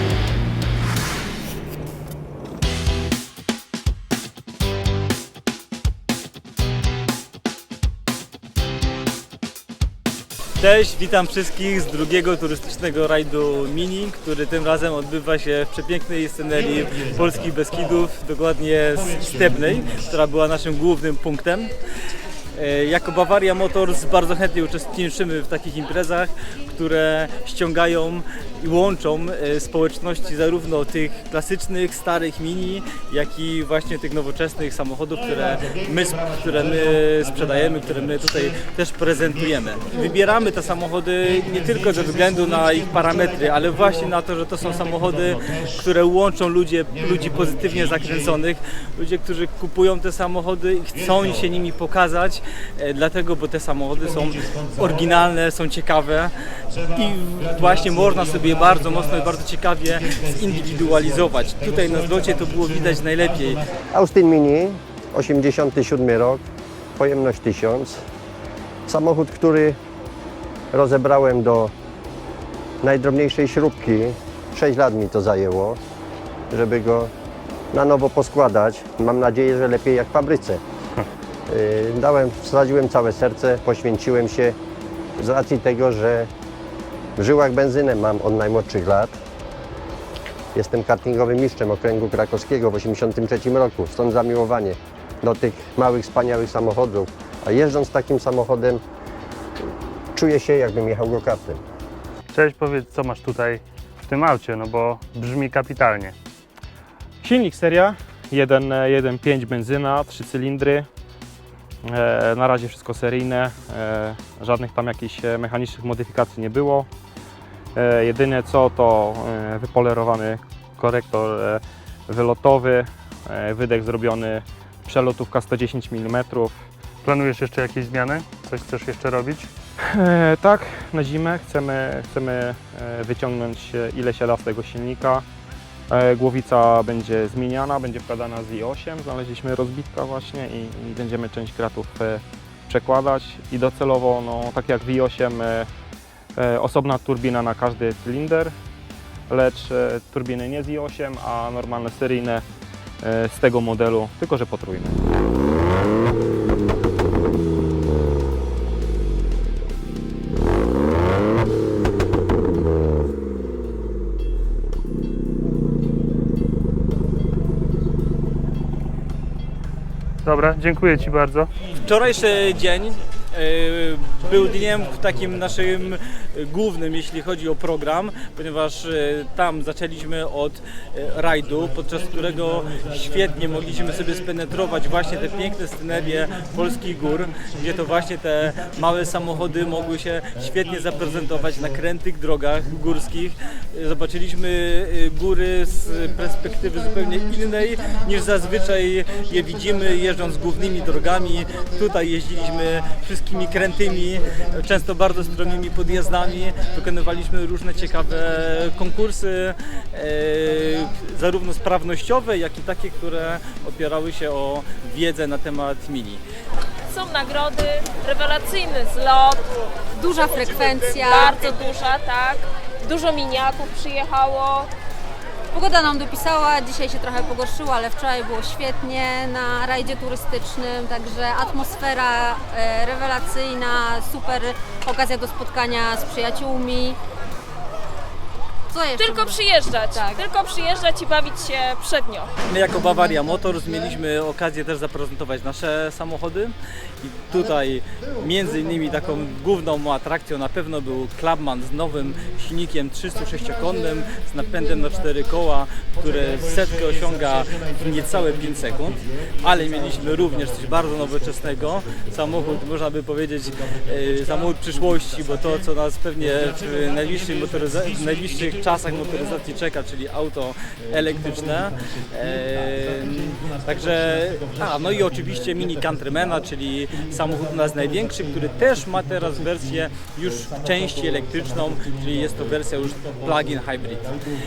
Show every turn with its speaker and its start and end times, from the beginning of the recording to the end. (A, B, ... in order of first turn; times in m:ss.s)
0:10.6-0:21.7 A
0:22.5-0:56.3 A
0:56.9-1:03.6 A
1:03.9-1:06.4 B
1:07.0-1:08.0 B
1:08.9-1:09.8 B
1:10.7-1:11.7 B
1:12.8-1:15.8 B
1:16.5-1:17.1 B
1:17.7-1:20.6 B
1:21.5-1:24.6 B
1:25.2-1:26.3 B
1:27.2-1:29.2 B
1:30.5-1:38.8 B
1:40.1-1:41.6 B
1:42.3-1:43.6 C
1:44.1-1:46.1 C
1:47.2-1:50.9 D
1:51.8-1:56.9 D
1:57.7-2:06.6 D
2:07.0-2:09.5 C
2:09.9-2:15.2 D
2:15.9-2:25.7 D
2:26.4-2:28.5 D
2:29.3-2:32.4 D
2:33.0-2:35.0 D
2:50.2-2:51.4 C
2:51.8-3:36.2 A
3:36.9-3:39.5 E
3:39.9-3:41.4 F
3:41.0-3:44.7 E
3:45.5-3:57.0 F
3:58.7-4:00.2 F
3:59.0-4:02.3 E
4:02.5-4:44.1 A